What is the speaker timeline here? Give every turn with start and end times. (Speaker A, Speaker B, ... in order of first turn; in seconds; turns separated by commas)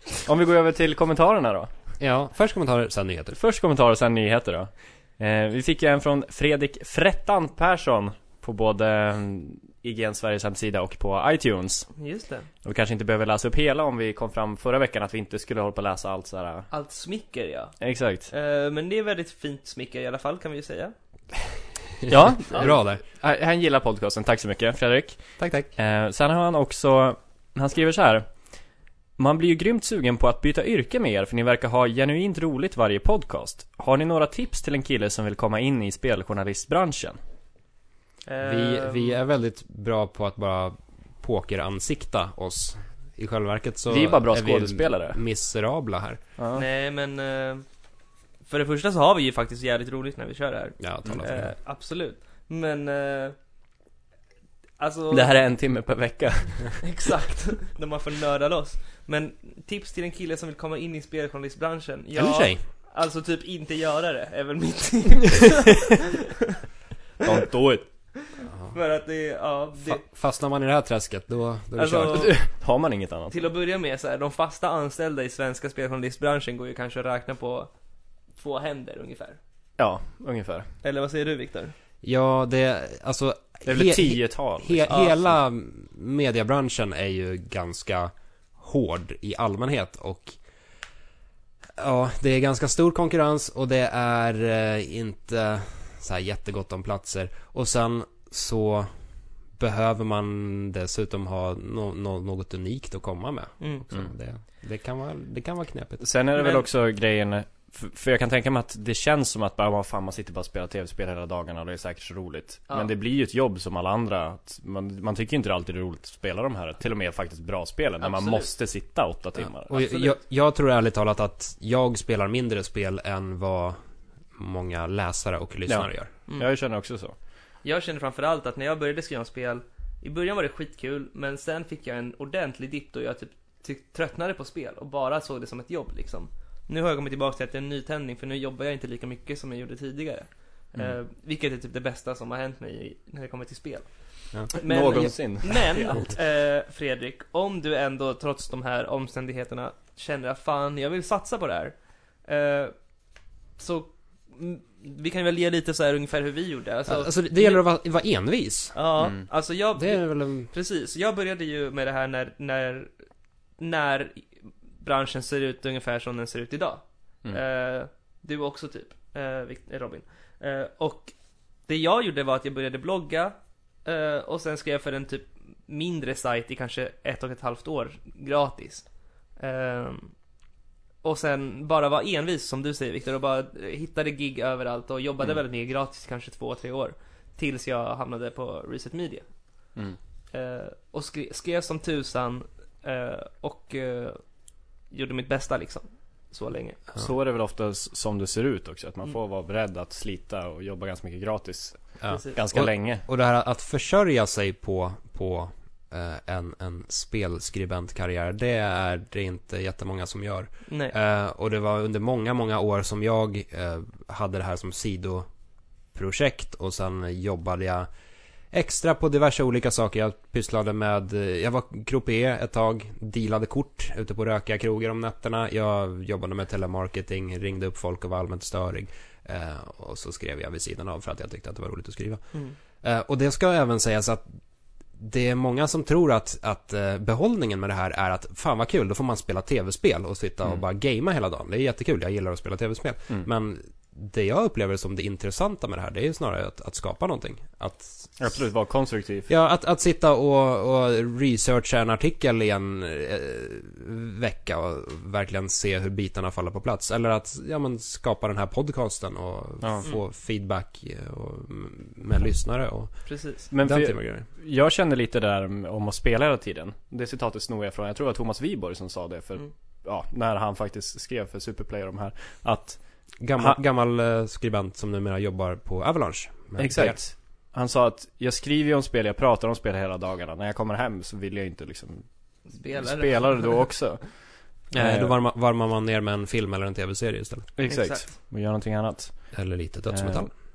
Speaker A: 0.2-1.7, Speaker B: 2.0-3.4, Speaker A: 3.3-11.9, Speaker C: 11.9-12.5, Speaker A: 12.6-16.7, Speaker C: 16.7-17.7, Speaker A: 17.8-18.3, Speaker C: 18.3-20.9, Speaker B: 22.0-23.0, Speaker A: 22.1-25.2, Speaker B: 25.4-25.7, Speaker A: 25.8-28.3, Speaker A: 29.2-37.2, Speaker C: 38.2-39.2, Speaker B: 38.4-46.2, Speaker A: 43.9-45.2, Speaker A: 46.4-46.6, Speaker C: 46.5-47.6, Speaker C: 48.4-53.4, Speaker B: 50.8-51.5, Speaker C: 54.8-55.3, Speaker A: 55.1-56.8, Speaker C: 56.8-66.3, Speaker B: 62.1-62.6, Speaker A: 67.2-67.8, Speaker C: 68.2-70.0, Speaker B: 68.5-68.7, Speaker B: 69.8-72.3, Speaker C: 71.7-72.5, Speaker A: 72.1-73.4, Speaker C: 73.3-77.7, Speaker C: 78.4-79.4, Speaker A: 79.8-80.7, Speaker C: 80.8-81.7, Speaker B: 82.0-90.4, Speaker A: 83.7-84.9, Speaker C: 84.9-85.2, Speaker B: 91.8-98.9, Speaker B: 99.6-106.0, Speaker C: 103.6-103.8, Speaker A: 106.0-119.8, Speaker C: 106.3-106.7, Speaker C: 118.0-118.5, Speaker B: 119.7-123.8, Speaker C: 119.7-120.2, Speaker B: 124.3-126.1, Speaker A: 125.7-127.1, Speaker C: 127.6-152.7, Speaker A: 144.5-146.0, Speaker C: 153.6-157.6, Speaker B: 156.8-158.8, Speaker C: 158.7-162.9, Speaker B: 159.8-160.5, Speaker C: 163.6-164.3, Speaker C: 164.8-171.1, Speaker C: 171.7-178.9, Speaker C: 179.4-180.1, Speaker C: 181.0-189.2, Speaker C: 190.3-194.2, Speaker C: 194.9-196.8, Speaker A: 196.9-203.0, Speaker B: 202.0-215.3, Speaker C: 202.1-202.4, Speaker C: 210.7-210.9, Speaker B: 215.9-217.9, Speaker B: 218.5-234.2, Speaker B: 235.0-248.2, Speaker A: 248.2-249.3, Speaker B: 249.3-264.2, Speaker A: 259.6-259.9, Speaker C: 263.1-263.5, Speaker A: 263.5-272.8, Speaker B: 273.2-277.0, Speaker A: 276.6-282.0, Speaker C: 282.5-283.6, Speaker A: 282.6-285.2, Speaker B: 284.7-287.5, Speaker A: 287.6-289.4, Speaker C: 287.7-288.1, Speaker B: 289.3-290.3, Speaker A: 289.9-290.3